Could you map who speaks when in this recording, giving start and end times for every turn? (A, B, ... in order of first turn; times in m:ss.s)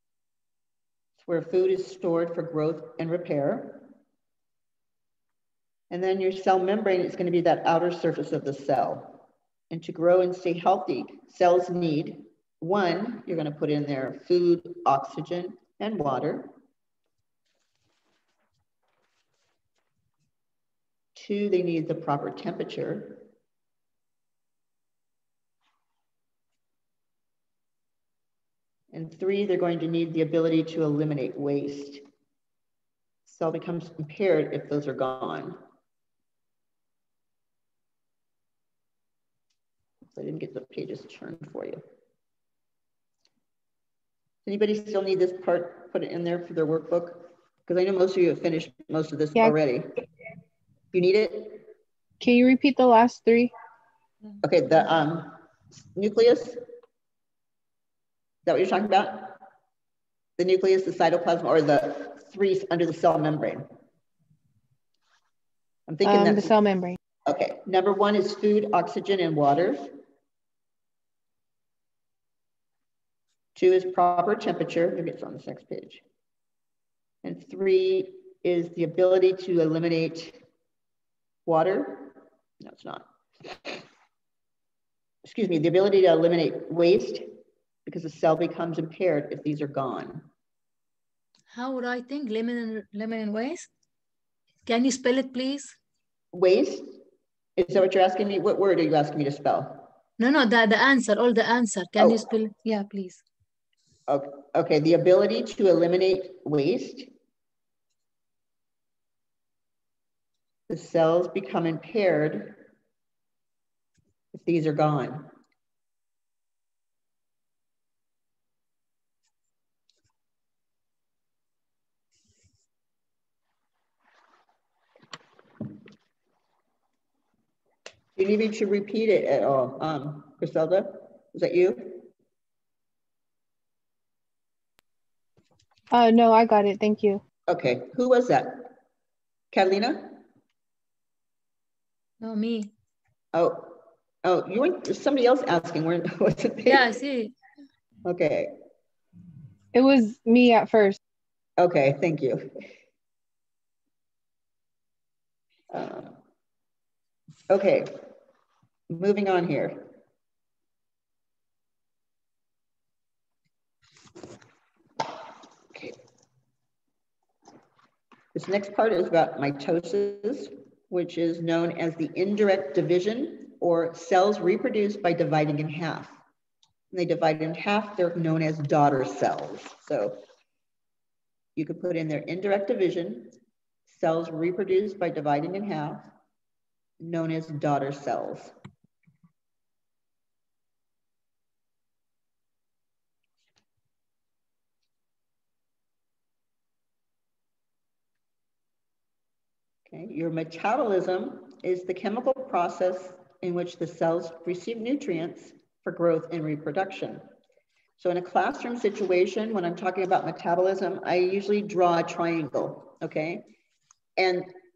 0:01.2-0:03.9 A
0:05.9-0:09.2 A
0:09.7-0:16.5 A
0:21.2-0:23.3 A
0:28.9-0:32.0 A
0:33.3-0:35.6 A
0:40.1-0:41.8 A
0:44.4-0:49.9 A
0:50.9-0:51.6 A
0:52.2-0:53.5 B
0:54.4-0:55.4 A
0:55.9-0:56.6 A
0:58.5-0:59.4 A
1:00.4-1:03.7 A
1:05.9-1:06.6 A
1:06.0-1:07.0 B
1:07.2-1:10.0 A
1:13.6-1:16.0 A
1:17.2-1:20.4 A
1:21.5-1:23.8 A
1:25.2-1:27.4 A
1:27.9-1:30.3 A
1:31.5-1:33.7 C
1:34.7-1:35.8 C
1:36.3-1:37.0 A
1:37.6-1:39.9 A
1:40.2-1:43.2 C
1:42.0-1:42.2 A
1:44.1-1:47.1 A
1:50.7-1:52.7 A
1:54.3-1:55.3 A
2:08.2-2:12.1 A
2:15.9-2:17.2 B
2:17.5-2:18.7 A
2:19.5-2:20.2 A
2:22.2-2:22.7 C
2:23.3-2:26.9 A
2:26.7-2:27.3 C
2:28.0-2:28.5 A
2:29.7-2:31.0 B
2:31.6-2:32.5 A
2:35.7-2:36.2 A
2:37.5-2:38.1 A
2:38.9-2:39.9 A
2:48.3-2:56.2 A
2:56.9-3:00.2 A
3:01.6-3:03.4 A
3:03.9-3:06.1 A
3:07.0-3:08.6 A
3:19.9-3:27.2 A
3:28.0-3:33.5 A
3:34.2-3:34.5 A